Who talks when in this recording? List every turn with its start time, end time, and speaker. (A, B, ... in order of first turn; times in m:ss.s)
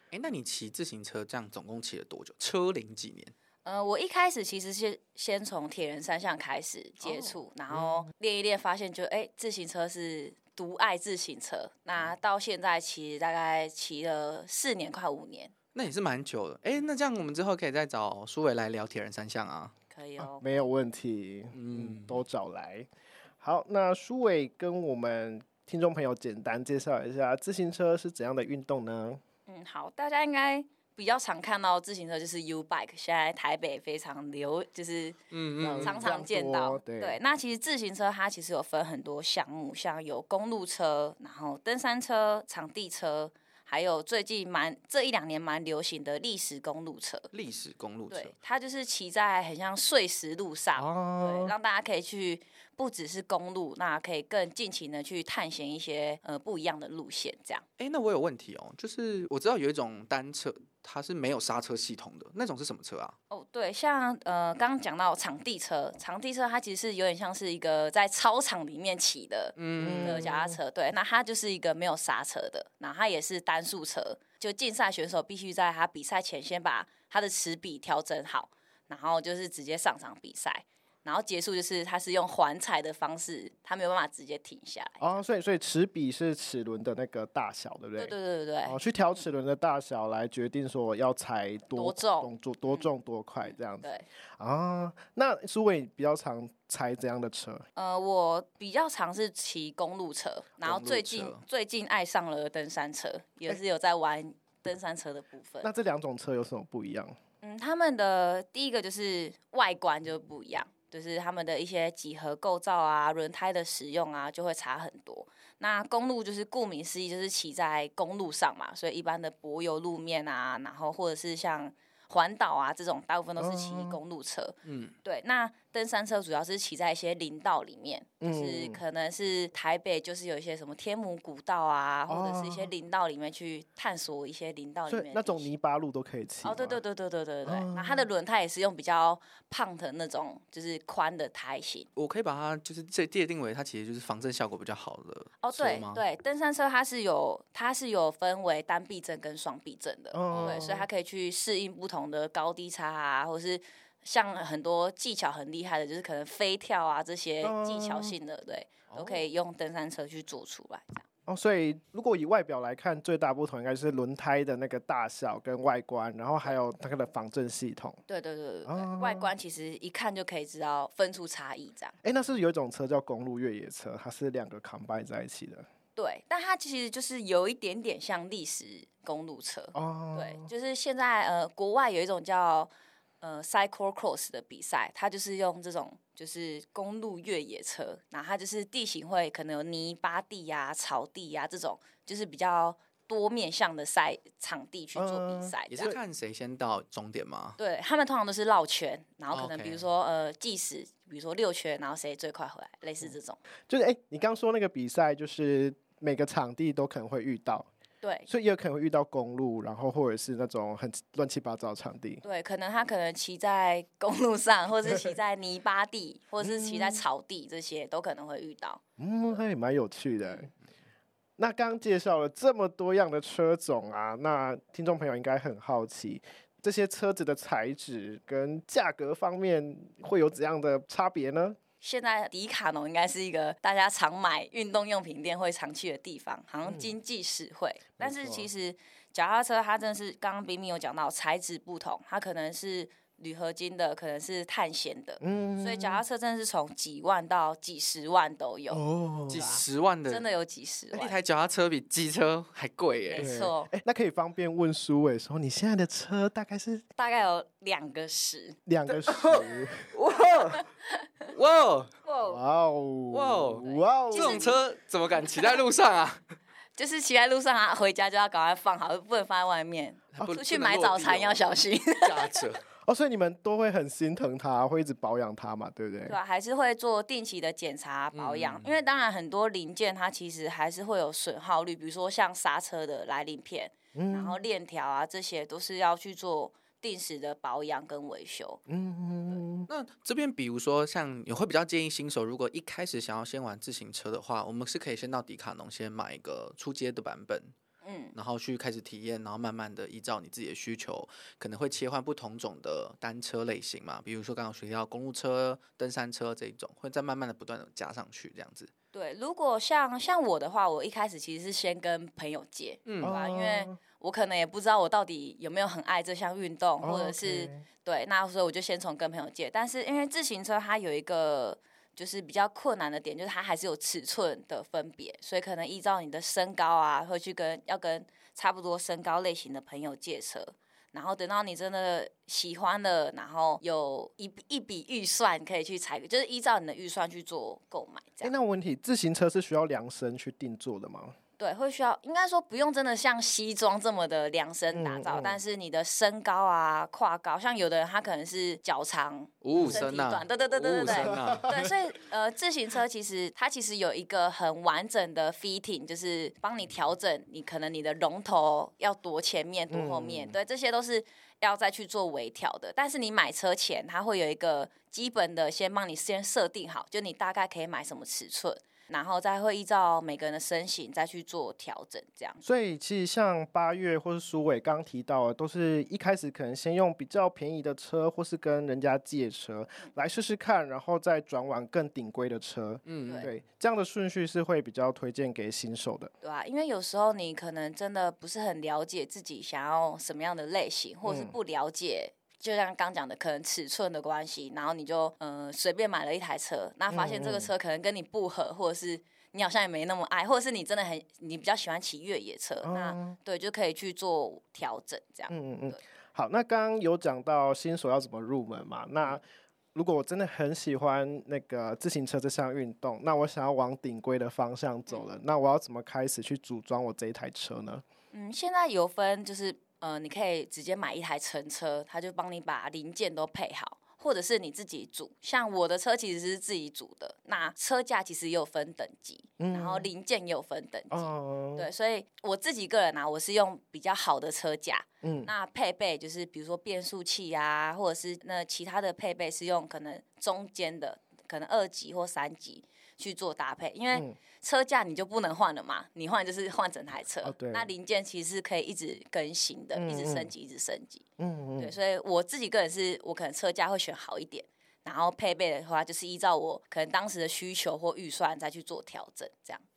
0:00.1-0:03.3 A
0:03.6-0:15.5 B
0:15.8-0:19.7 A
0:19.9-0:20.4 B
0:20.2-0:22.9 C
0:21.6-0:22.2 A
0:23.4-0:29.2 C
0:29.5-0:35.2 B
0:35.3-0:36.0 A
0:35.6-0:37.2 C
0:35.8-0:47.3 B
0:47.3-0:48.3 A
0:48.1-0:57.6 B
0:50.8-0:51.5 C
0:57.8-1:03.2 A
1:03.3-1:25.2 B
1:09.6-1:10.3 A
1:09.8-1:10.6 C
1:25.0-1:28.2 C
1:28.0-1:29.2 B
1:28.7-1:37.6 C
1:31.7-1:32.9 B
1:33.4-1:34.1 B
1:37.8-1:45.7 B
1:40.6-1:41.4 A
1:45.6-1:47.2 C
1:47.4-2:15.5 B
2:03.4-2:04.0 C
2:04.6-2:04.9 A
2:08.2-2:08.8 C
2:12.1-2:12.7 C
2:14.9-2:16.8 C
2:16.4-2:21.9 B
2:17.5-2:18.1 C
2:22.0-2:26.0 A
2:25.4-2:41.0 B
2:30.1-2:30.9 C
2:30.3-2:30.6 A
2:37.4-2:38.2 C
2:41.3-2:48.0 C
2:48.1-2:52.0 B
2:48.7-2:49.3 C
2:52.0-2:55.7 C
2:56.0-3:02.7 B
2:59.8-3:00.5 C
3:03.2-3:15.9 B
3:15.0-3:16.0 C
3:15.7-3:17.6 A
3:17.6-3:23.4 B
3:19.3-3:19.8 A
3:23.7-3:27.7 C
3:28.0-3:28.3 B
3:28.3-3:32.2 C
3:32.2-3:38.8 B
3:36.4-3:37.0 C
3:39.0-3:40.5 C
3:41.4-3:51.6 C
3:51.8-4:11.2 B
3:56.7-3:56.9 C
3:58.0-3:58.5 C
4:05.2-4:06.0 C
4:08.7-4:09.6 C
4:09.3-4:10.2 A
4:10.9-4:13.3 A
4:13.1-4:13.7 B
4:13.2-4:16.9 C
4:17.0-4:18.6 B
4:18.7-4:19.9 C
4:18.9-4:20.6 A
4:20.6-4:21.3 B
4:21.3-4:21.9 A
4:22.0-4:22.4 B
4:22.2-4:24.4 C
4:23.1-4:26.2 A
4:23.6-4:24.6 B
4:26.8-4:32.4 B
4:30.2-4:31.4 A
4:32.0-4:32.6 A
4:32.9-4:36.2 C
4:36.1-4:48.6 B
4:38.1-4:38.7 A
4:44.0-4:44.4 C
4:48.7-4:49.7 C
4:49.7-4:57.5 A
4:57.8-4:58.2 B
4:58.2-5:08.7 A
5:08.9-5:38.3 B
5:12.9-5:13.2 A
5:13.0-5:13.8 C
5:16.8-5:17.6 C
5:38.2-5:41.1 C
5:41.4-6:12.4 B
5:44.7-5:45.4 C
5:49.4-5:51.6 A
5:49.6-5:49.9 C
5:50.8-5:51.7 C
5:59.7-6:00.4 C
6:12.4-6:26.1 C
6:22.9-6:23.3 A
6:26.2-6:45.8 B
6:31.0-6:31.3 C
6:36.9-6:37.5 C
6:42.6-6:43.2 C
6:45.3-6:49.2 C
6:49.8-6:57.8 C
6:58.1-7:31.0 B
7:09.4-7:09.9 C
7:10.9-7:11.7 C
7:15.0-7:15.3 C
7:23.9-7:24.2 C
7:27.2-7:27.7 C
7:29.7-7:30.3 C
7:31.2-7:31.7 C
7:31.6-7:39.6 B